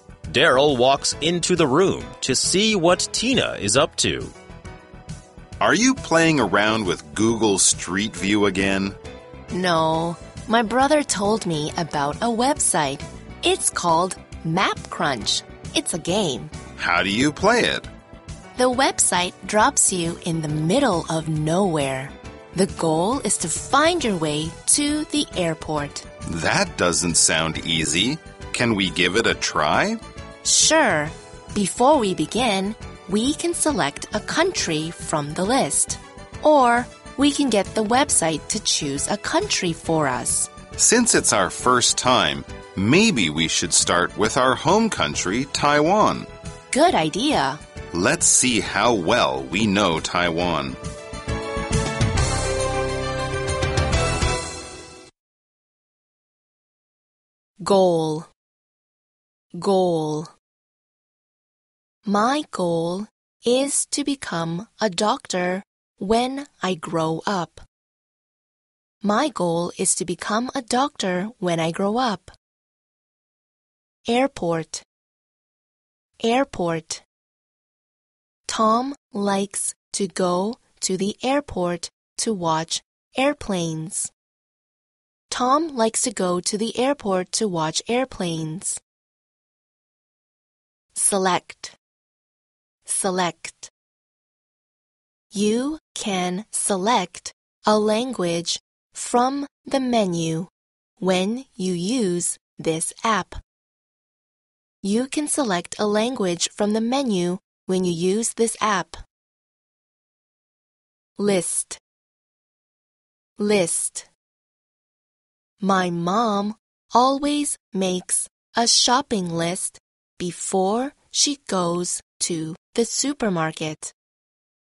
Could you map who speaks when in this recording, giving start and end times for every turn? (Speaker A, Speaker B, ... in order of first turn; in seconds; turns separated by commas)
Speaker A: 0.3-4.3, Speaker B: 5.6-8.9, Speaker C: 9.5-16.5, Speaker B: 16.8-17.9, Speaker C: 18.6-26.1, Speaker B: 26.3-30.0, Speaker C: 30.4-40.5, Speaker B: 40.8-46.3, Speaker C: 46.7-47.6, Speaker B: 47.9-50.8, Speaker C: 57.6-58.3, Speaker C: 59.5-60.3, Speaker C: 62.0-67.6, Speaker C: 69.0-72.3, Speaker C: 74.1-74.8, Speaker C: 76.2-77.0, Speaker C: 78.5-84.1, Speaker C: 85.3-88.8, Speaker C: 91.0-91.8, Speaker C: 92.9-93.7, Speaker C: 95.3-103.4, Speaker C: 104.8-109.0, Speaker C: 111.2-111.8, Speaker C: 113.4-114.1, Speaker C: 115.6-123.9